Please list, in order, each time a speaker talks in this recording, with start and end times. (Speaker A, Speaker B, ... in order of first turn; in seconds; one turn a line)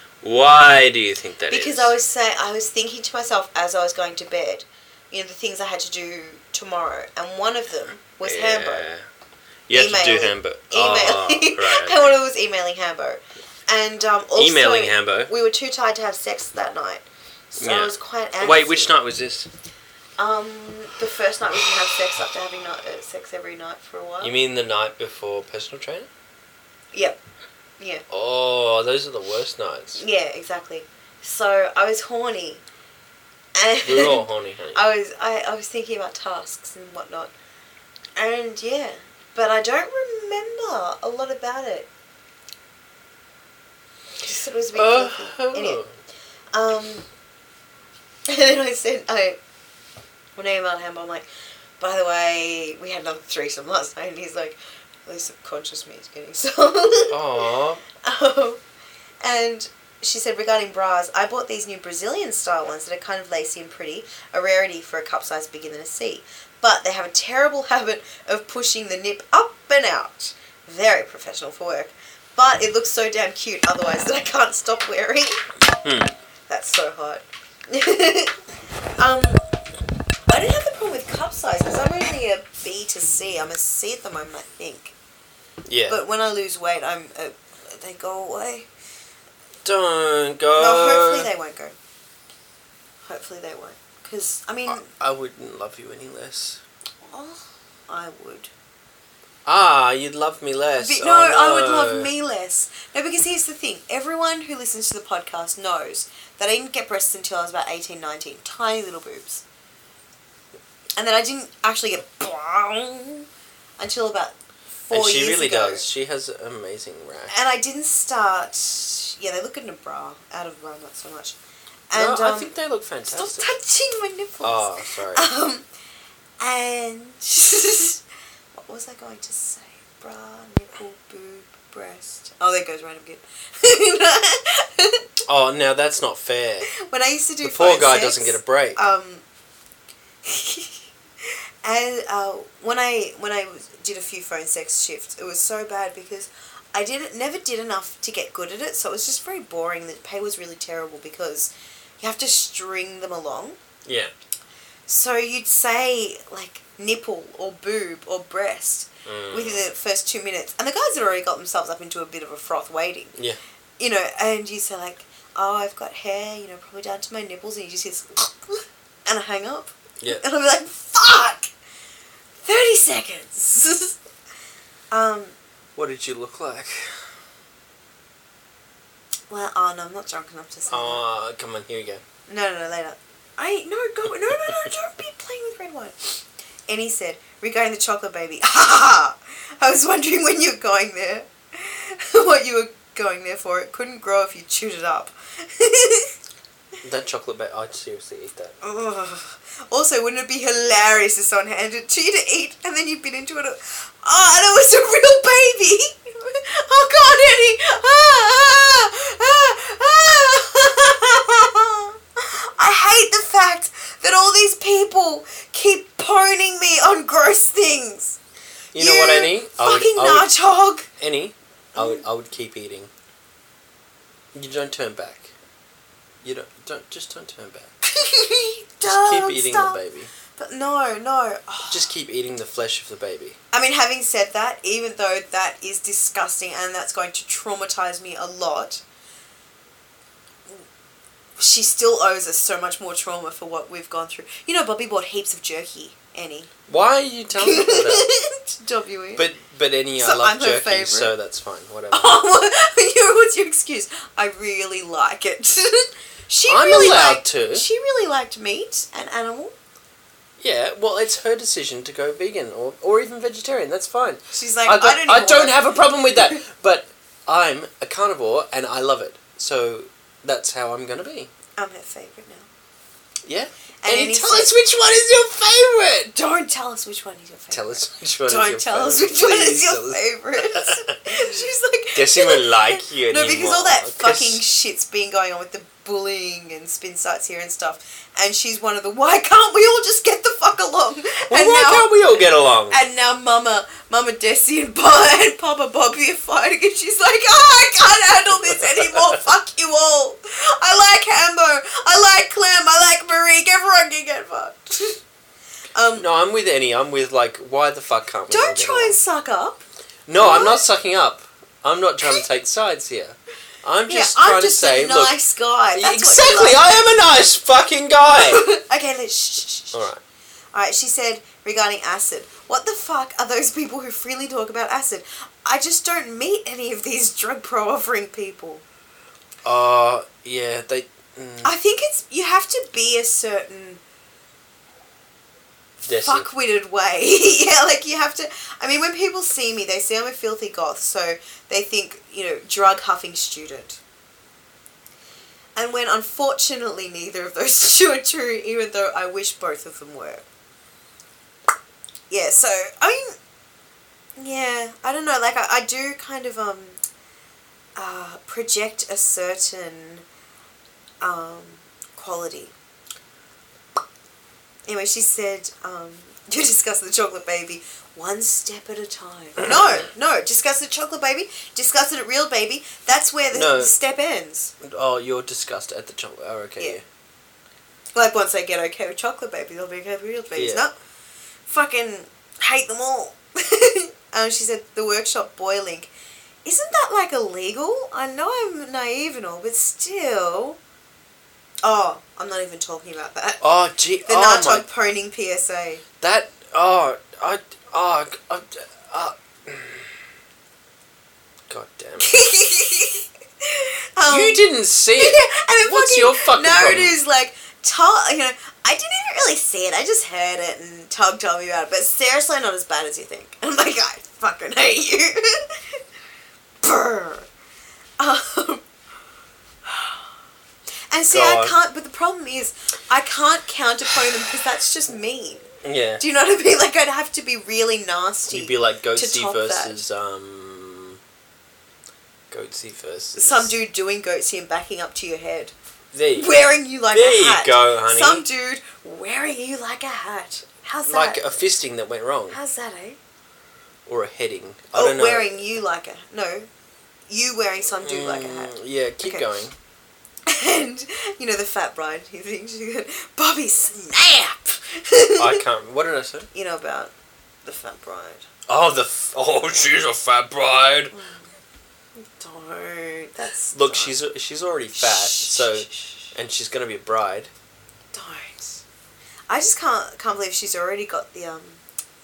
Speaker A: 0.2-1.9
Speaker B: 1.5-8.9
Speaker A: 8.2-9.1
Speaker A: 9.7-12.1
Speaker B: 9.7-18.9
Speaker A: 14.4-15.3
Speaker A: 17.6-19.5
Speaker B: 20.2-24.3
Speaker A: 24.2-26.1
Speaker B: 26.9-27.2
Speaker A: 28.1-30.0
Speaker B: 30.0-32.6
Speaker B: 33.6-37.3
Speaker A: 33.8-34.8
Speaker B: 38.2-41.9
Speaker B: 44.2-45.8
Speaker A: 44.7-45.9
Speaker B: 46.5-47.1
Speaker B: 48.3-49.4
Speaker B: 50.4-51.3
Speaker B: 51.8-57.2
Speaker A: 57.1-57.8
Speaker B: 57.9-58.6
Speaker B: 59.2-75.4
Speaker A: 75.8-76.1
Speaker B: 76.5-78.4
Speaker B: 79.0-79.4
Speaker B: 80.3-84.9
Speaker A: 85.7-86.0
Speaker B: 85.9-88.7
Speaker A: 89.6-91.3
Speaker B: 90.5-91.8
Speaker B: 93.0-94.9
Speaker A: 94.7-96.6
Speaker B: 97.1-98.5
Speaker A: 99.5-102.1
Speaker B: 100.8-109.4
Speaker B: 111.0-113.2
Speaker B: 113.8-114.3
Speaker B: 114.9-115.9
Speaker A: 114.9-117.3
Speaker B: 117.3-121.4
Speaker B: 121.9-122.5
Speaker A: 121.9-123.5
Speaker B: 123.0-125.7
Speaker A: 124.4-125.3
Speaker B: 126.4-128.0
Speaker B: 128.6-135.1
Speaker A: 135.3-136.7
Speaker B: 136.8-139.2
Speaker A: 137.4-138.8
Speaker B: 140.2-153.6
Speaker A: 153.9-154.1
Speaker B: 154.9-163.2
Speaker A: 159.1-159.7
Speaker B: 163.8-171.5
Speaker B: 172.4-174.0
Speaker B: 174.9-175.3
Speaker A: 175.8-177.0
Speaker B: 179.3-181.0
Speaker A: 180.7-182.0
Speaker B: 182.3-196.1
Speaker A: 196.8-198.6
Speaker B: 198.6-218.2
Speaker A: 218.7-220.3
Speaker B: 218.8-220.9
Speaker A: 221.0-222.9
Speaker B: 221.8-222.1
Speaker A: 224.3-225.3
Speaker A: 226.2-227.7
Speaker B: 227.8-229.8
Speaker A: 228.8-230.1
Speaker B: 230.3-231.9
Speaker A: 231.7-233.4
Speaker B: 233.5-238.8
Speaker B: 241.4-246.5
Speaker A: 246.7-248.1
Speaker B: 247.4-249.3
Speaker A: 249.2-252.2
Speaker B: 250.0-251.1
Speaker B: 251.9-259.5
Speaker A: 256.5-257.7
Speaker A: 260.4-271.3
Speaker B: 264.3-265.7
Speaker B: 271.6-272.5
Speaker A: 273.3-276.1
Speaker B: 273.8-274.5
Speaker B: 276.1-305.0
Speaker A: 277.5-281.4
Speaker A: 281.9-284.4
Speaker A: 291.3-292.9
Speaker A: 298.7-299.2
Speaker B: 305.8-306.1
Speaker A: 305.9-309.0
Speaker B: 308.3-309.6
Speaker A: 310.1-315.2
Speaker B: 310.2-310.6
Speaker B: 313.9-316.8
Speaker A: 315.7-318.4
Speaker B: 318.2-319.9
Speaker A: 319.7-320.0
Speaker B: 320.5-328.6
Speaker A: 329.4-331.5
Speaker B: 331.4-333.8
Speaker A: 335.8-336.3
Speaker B: 336.0-343.8
Speaker B: 345.6-350.2
Speaker B: 352.1-353.1
Speaker B: 354.2-356.8
Speaker B: 357.8-360.1
Speaker B: 361.0-362.5
Speaker B: 364.7-374.5
Speaker A: 369.4-369.8
Speaker A: 373.3-373.8
Speaker A: 374.6-376.8
Speaker B: 377.9-380.7
Speaker A: 380.4-380.7
Speaker B: 381.5-385.9
Speaker B: 386.4-390.6
Speaker B: 391.6-393.4
Speaker A: 393.4-394.7
Speaker B: 394.1-395.8
Speaker A: 396.0-399.9
Speaker A: 401.5-402.2
Speaker B: 402.0-415.4
Speaker A: 404.0-407.0
Speaker B: 416.6-417.3
Speaker B: 418.0-418.6
Speaker B: 419.7-420.1
Speaker B: 420.9-425.5
Speaker A: 421.1-421.6
Speaker A: 425.6-426.0
Speaker B: 426.0-429.8
Speaker A: 428.3-431.0
Speaker A: 432.3-433.6
Speaker B: 433.2-435.5
Speaker A: 435.9-438.2
Speaker B: 436.1-441.4
Speaker A: 440.9-442.4
Speaker B: 442.3-443.0
Speaker A: 443.9-445.5
Speaker B: 444.7-446.5
Speaker B: 447.1-449.3
Speaker A: 447.8-449.6
Speaker B: 450.3-455.4
Speaker A: 455.2-456.3
Speaker B: 456.3-456.9
Speaker B: 457.4-458.3
Speaker A: 458.5-460.9
Speaker B: 460.9-461.3
Speaker B: 462.2-464.0
Speaker A: 463.5-467.3
Speaker B: 464.8-466.1
Speaker B: 467.9-468.6
Speaker B: 469.3-471.6